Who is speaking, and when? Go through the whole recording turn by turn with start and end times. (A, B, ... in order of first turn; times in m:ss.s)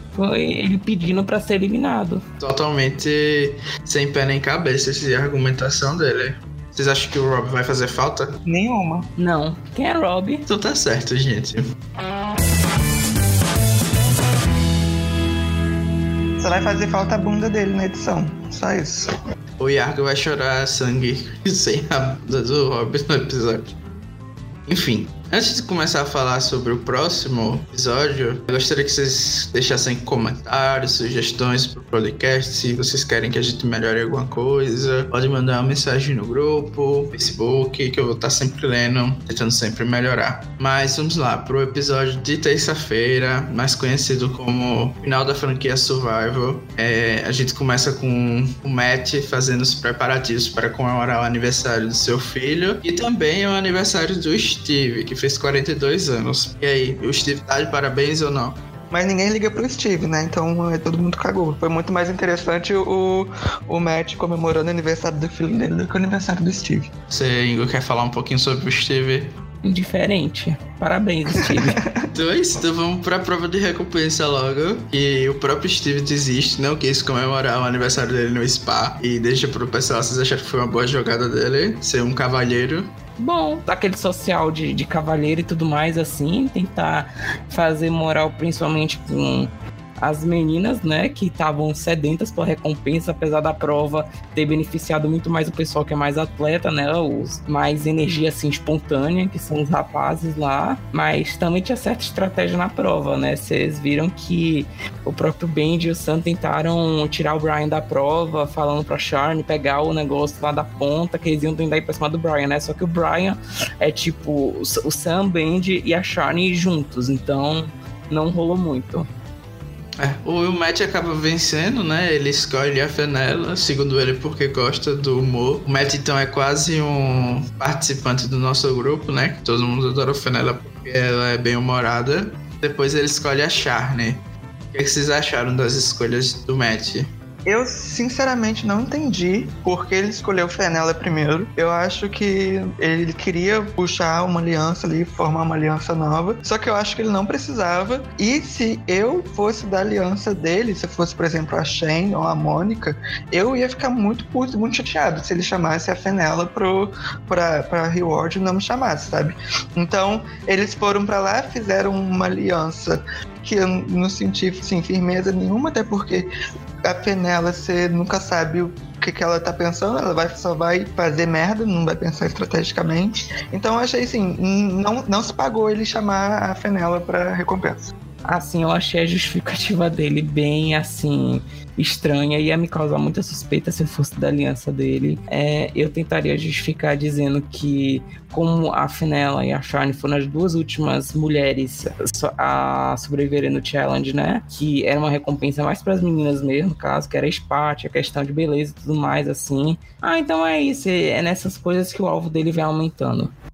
0:00.2-0:02.2 A
0:02.4-0:08.4 B
0:08.5-0:09.1 C
0:09.2-0:10.5 A
0:10.5-0:11.7 B
0:16.4-0:19.1 C
0:19.6-0:23.8 B
0:24.7-0:58.6 B
0:58.9-1:06.9 C
1:07.1-1:09.4 B
1:09.6-1:11.8 A
1:11.3-1:12.1 C
1:12.1-1:22.9 B
1:23.2-1:59.1 A
2:00.0-2:17.1 B
2:17.5-2:46.3 C
2:46.8-2:57.9 C
2:58.2-3:23.3 A